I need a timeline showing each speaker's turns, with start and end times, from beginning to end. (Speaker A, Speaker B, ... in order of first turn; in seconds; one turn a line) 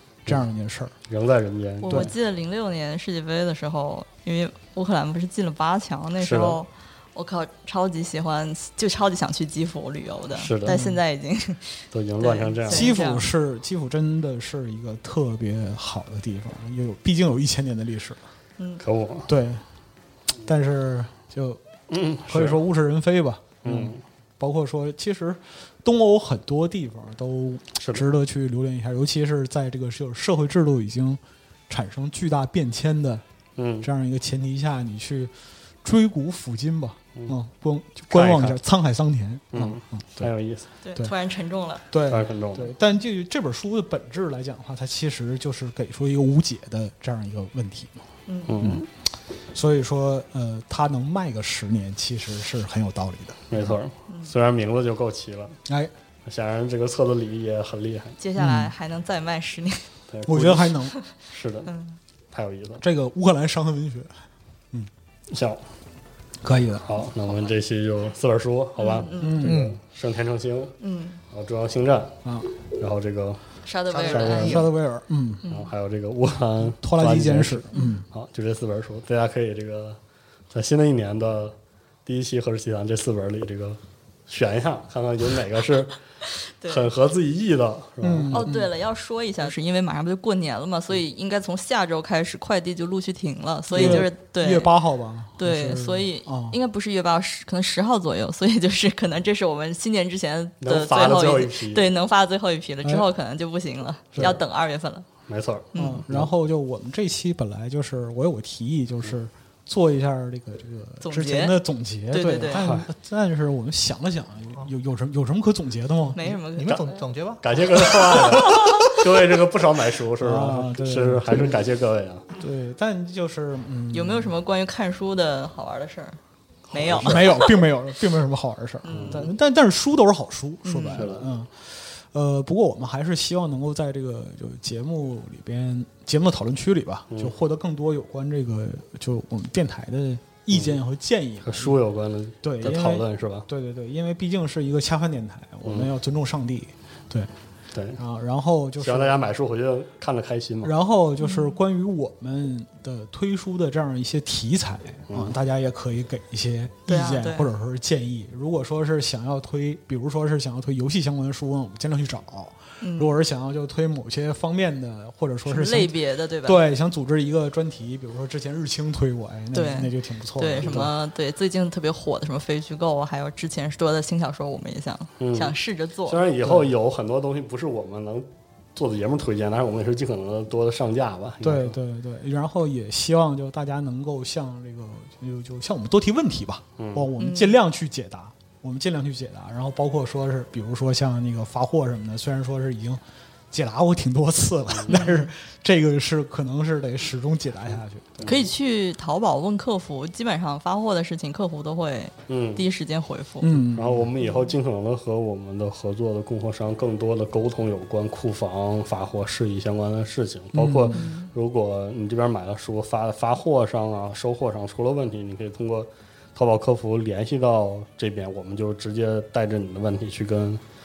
Speaker A: 0.3-0.9
Speaker B: 1.1-2.1
Speaker C: 1.8-13.2
Speaker B: 6.2-6.6
Speaker B: 10.4-10.8
Speaker A: 10.6-11.0
Speaker B: 11.9-12.9
Speaker A: 12.7-18.2
Speaker B: 18.8-19.3
Speaker A: 19.3-19.6
Speaker A: 20.4-21.6
Speaker B: 21.9-22.6
Speaker A: 22.3-33.2
Speaker B: 23.6-24.0
Speaker B: 27.8-28.1
Speaker B: 33.6-33.9
Speaker A: 33.8-35.3
Speaker A: 35.8-40.3
Speaker B: 38.1-38.6
Speaker B: 39.5-40.7
Speaker C: 40.8-41.8
Speaker A: 41.9-47.9
Speaker B: 42.1-42.7
Speaker C: 48.3-48.6
Speaker B: 48.5-48.9
Speaker A: 48.6-48.9
Speaker A: 49.5-53.7
Speaker B: 53.5-55.6
Speaker B: 56.2-58.2
Speaker C: 58.2-59.9
Speaker A: 58.4-58.7
Speaker B: 60.1-60.8
Speaker A: 60.3-60.9
Speaker B: 61.3-61.7
Speaker C: 61.7-62.0
Speaker B: 62.3-62.8
Speaker A: 62.8-64.1
Speaker B: 65.3-65.6
Speaker A: 66.4-67.0
Speaker B: 66.8-70.8
Speaker C: 68.8-69.5
Speaker A: 69.2-69.7
Speaker D: 69.5-69.8
Speaker C: 70.8-71.2
Speaker B: 71.3-72.2
Speaker A: 72.2-72.5
Speaker B: 72.7-73.4
Speaker C: 73.6-74.6
Speaker D: 73.9-74.7
Speaker B: 74.1-74.6
Speaker A: 74.4-75.4
Speaker C: 75.4-75.7
Speaker B: 75.5-80.0
Speaker A: 76.8-78.1
Speaker B: 80.5-86.0
Speaker C: 86.6-86.9
Speaker B: 86.6-88.5
Speaker A: 88.0-88.7
Speaker C: 88.3-94.7
Speaker A: 93.7-96.6
Speaker B: 93.7-94.1
Speaker C: 95.4-105.1
Speaker B: 100.6-101.9
Speaker B: 104.2-104.4
Speaker B: 105.3-106.3
Speaker C: 105.7-106.0
Speaker A: 105.8-116.3
Speaker C: 111.0-111.5
Speaker C: 112.1-112.6
Speaker B: 112.5-112.9
Speaker C: 116.1-116.9
Speaker D: 116.5-117.7
Speaker B: 117.4-122.3
Speaker A: 118.0-118.9
Speaker A: 120.2-121.6
Speaker A: 122.3-124.3
Speaker C: 123.9-126.2
Speaker B: 126.7-127.3
Speaker C: 126.7-127.5
Speaker A: 126.9-141.8
Speaker C: 128.8-129.3
Speaker B: 128.9-129.3
Speaker C: 130.6-131.1
Speaker B: 130.9-131.3
Speaker B: 137.1-137.4
Speaker B: 140.5-140.8
Speaker B: 141.4-143.5
Speaker A: 142.4-147.3
Speaker B: 145.6-145.9
Speaker B: 147.7-148.0
Speaker A: 148.0-149.2
Speaker B: 148.8-150.7
Speaker A: 150.6-170.9
Speaker C: 151.2-151.6
Speaker B: 155.1-155.3
Speaker C: 156.9-157.5
Speaker C: 162.8-163.2
Speaker C: 165.5-166.6
Speaker C: 169.5-176.2
Speaker B: 170.6-170.9
Speaker B: 175.2-181.8
Speaker A: 181.4-193.0
Speaker B: 186.8-187.1
Speaker C: 187.2-187.6
Speaker A: 193.5-198.4
Speaker B: 194.7-195.0
Speaker C: 194.9-195.3
Speaker B: 198.2-198.5
Speaker C: 198.2-203.6
Speaker B: 202.3-202.7
Speaker A: 203.4-204.1
Speaker B: 203.8-220.6
Speaker C: 204.2-204.5
Speaker A: 210.5-211.1
Speaker C: 210.9-211.3